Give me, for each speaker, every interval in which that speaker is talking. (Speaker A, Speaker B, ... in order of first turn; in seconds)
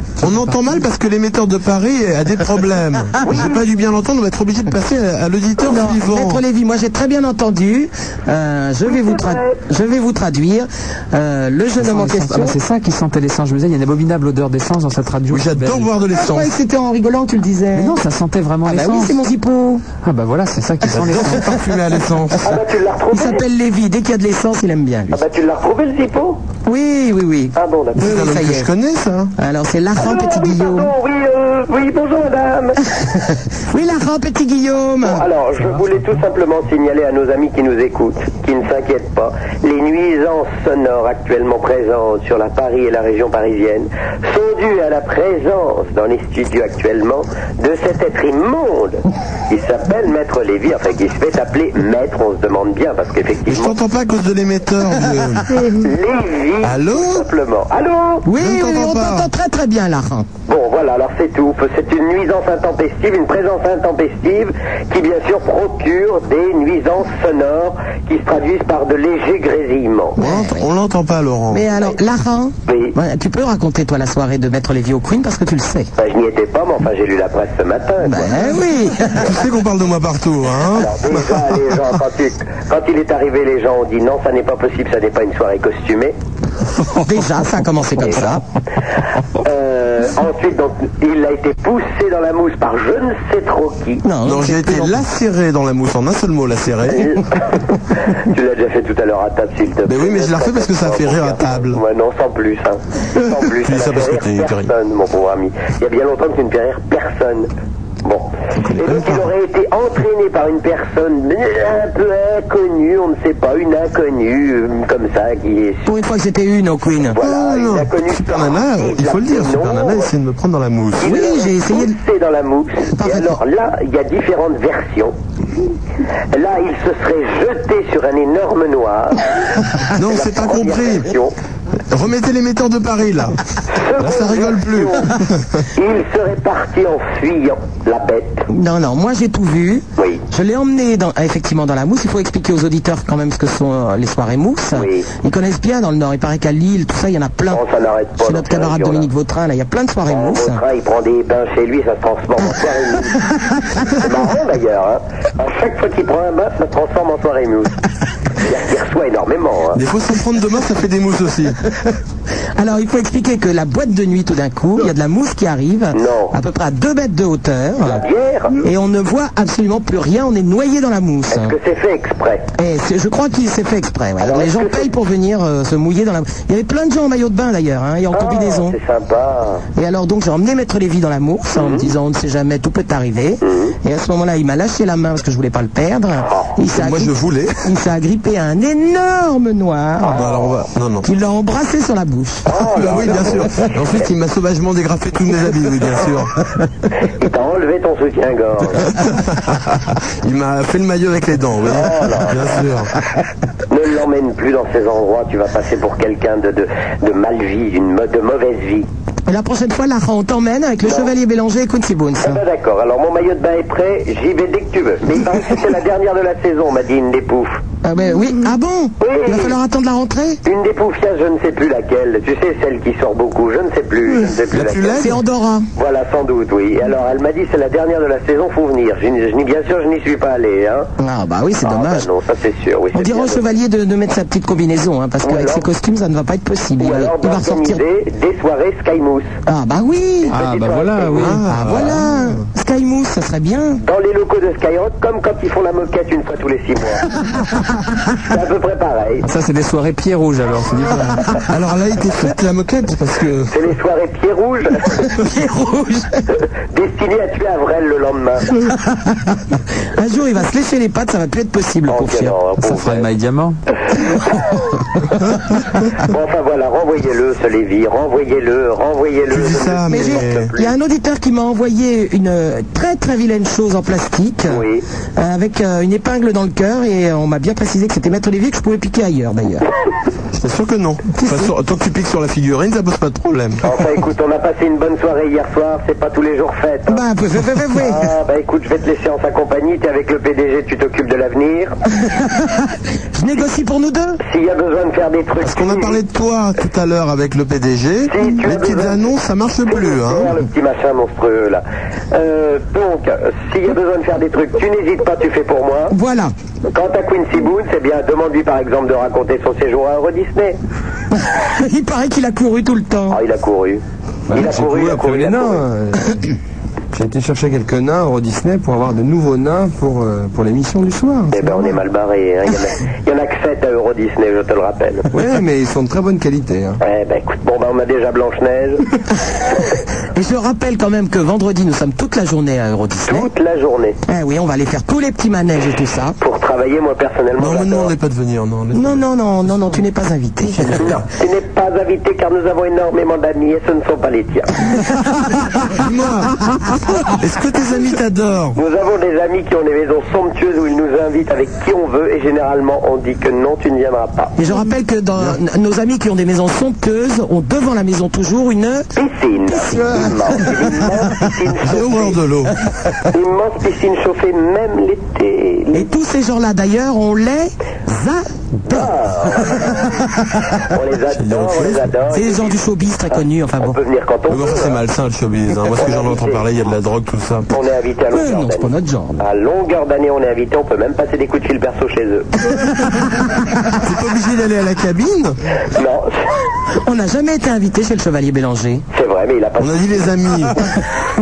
Speaker A: 0.2-6.4, 15.3-16.5, 20.9-22.6, 28.0-29.3, 53.5-55.8, 56.6-57.3, 58.4-59.3, 70.2-71.7, 79.2-81.4, 94.2-97.2, 99.9-101.8, 103.6-104.7, 108.6-109.3, 117.2-121.1, 129.9-131.1, 131.9-133.4, 134.0-135.7, 159.7-161.6, 186.7-187.6, 190.1-191.1, 192.6-196.4, 199.0-202.9, 224.5-225.2, 241.2-242.0, 251.5-253.6, 269.3-270.5, 280.3-283.6, 295.4-300.4, 337.4-339.0, 340.6-340.9, 345.7-348.6, 361.6-362.6, 371.1-371.9, 374.3-377.5, 383.7-385.4, 389.6-390.6
Speaker B: 3.2-3.6, 8.9-9.5, 22.4-23.4, 25.1-26.4, 27.6-28.1, 30.0-32.8, 35.0-53.8, 55.7-58.3, 60.5-70.2, 72.7-73.0, 76.0-78.5, 80.8-86.2, 88.0-88.3, 89.4-94.0, 96.9-107.5, 108.0-115.9, 117.1-120.1, 121.0-125.2, 126.3-129.4, 130.0-131.3, 133.8-135.1, 135.7-138.5, 144.7-145.1, 147.5-149.1, 150.1-153.3, 153.9-157.8, 158.4-159.8, 165.9-166.3, 167.8-168.6, 171.3-172.5, 174.2-174.9, 178.1-179.7, 181.6-181.9, 183.4-183.7, 190.0-190.7, 192.5-194.1, 197.1-198.9, 201.7-202.7, 203.7-208.9, 212.2-217.6, 219.0-219.6, 220.4-225.1, 225.8-230.9, 231.6-233.4, 235.2-235.7, 236.8-239.3, 240.2-241.4, 243.8-247.1, 248.2-249.2, 253.5-255.0, 256.7-258.5, 261.9-263.1, 266.0-270.7, 274.5-274.8, 283.6-287.0, 287.7-291.8, 294.2-296.0, 298.1-299.1, 299.7-305.9, 306.7-310.6, 313.1-315.7, 321.3-325.1, 326.8-328.8, 333.1-334.0, 336.2-337.9, 340.8-344.5, 348.6-354.4, 359.0-362.2, 363.0-365.9, 368.7-370.0, 370.6-372.6, 373.6-374.8, 375.7-376.5, 377.5-382.5, 385.7-386.3, 388.9-390.3
Speaker C: 5.6-12.6, 16.1-18.0, 18.7-19.8, 23.1-25.2, 26.7-28.7, 29.4-30.9, 32.9-35.2, 58.2-60.3, 70.2-70.7, 71.5-75.9, 78.0-79.4, 87.0-88.4, 94.0-95.0, 115.9-117.2, 121.0-122.0, 123.0-123.4, 138.5-147.6, 148.2-150.6, 162.6-168.1, 168.6-171.6, 172.6-178.8, 179.8-190.3, 191.1-192.5, 209.3-212.4, 217.8-220.4, 225.0-225.7, 231.0-232.1, 232.9-237.8, 239.5-240.3, 241.5-243.8, 255.2-256.3, 258.9-259.4, 260.0-262.4, 269.9-274.6, 275.2-279.7, 281.2-281.5, 286.9-288.1, 292.1-294.2, 305.9-306.3, 311.1-313.2, 330.1-333.3, 334.1-336.2, 338.7-340.9, 354.4-358.9, 359.5-360.7, 365.7-370.0, 372.1-373.8, 378.1-379.2, 386.7-388.8
Speaker D: 11.8-15.9, 17.8-19.2, 20.0-21.5, 240.3-242.0, 249.2-251.3, 262.6-263.6
Speaker E: 314.3-316.3, 316.9-321.5, 325.1-326.8